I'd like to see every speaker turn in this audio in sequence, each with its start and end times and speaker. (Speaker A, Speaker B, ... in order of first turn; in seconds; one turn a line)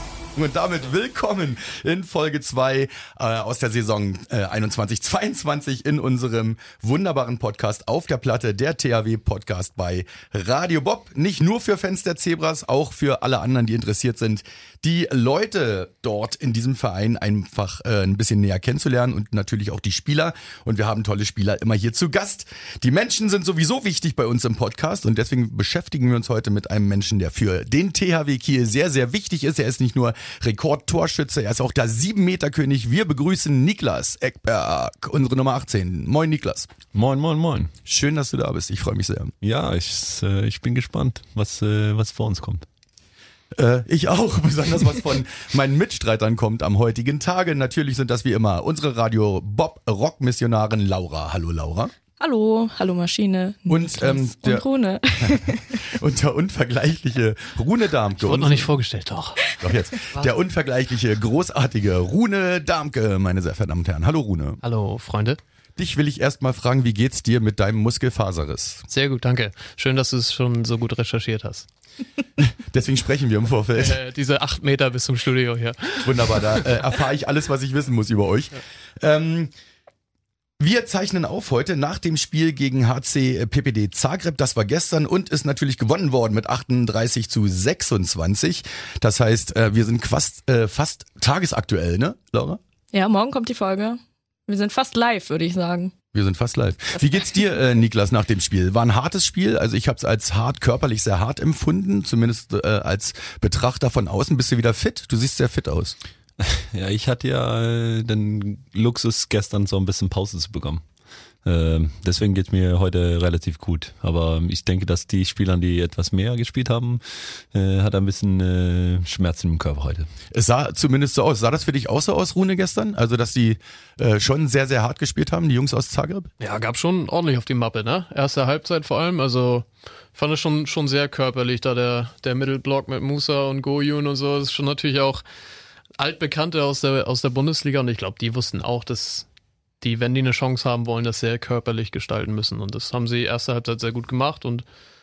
Speaker A: 0.3-36.7
Speaker B: 36.9-37.7
Speaker A: 37.9-39.3
Speaker B: 39.4-42.6
Speaker A: 43.5-51.9
Speaker C: 52.2-55.7
Speaker A: 53.7-54.6
Speaker A: 55.2-58.7
Speaker D: 58.2-59.4
Speaker A: 59.6-64.6
Speaker D: 64.6-65.4
Speaker A: 65.8-68.8
Speaker D: 68.9-71.7
Speaker A: 72.4-74.0
Speaker D: 73.8-76.6
Speaker A: 76.0-79.5
Speaker A: 80.6-92.6
Speaker C: 92.9-95.9
Speaker A: 96.1-106.0
Speaker B: 106.4-110.8
Speaker B: 111.5-120.1
Speaker A: 120.3-126.3
Speaker D: 126.4-135.2
Speaker D: 136.0-139.3
Speaker D: 139.8-144.7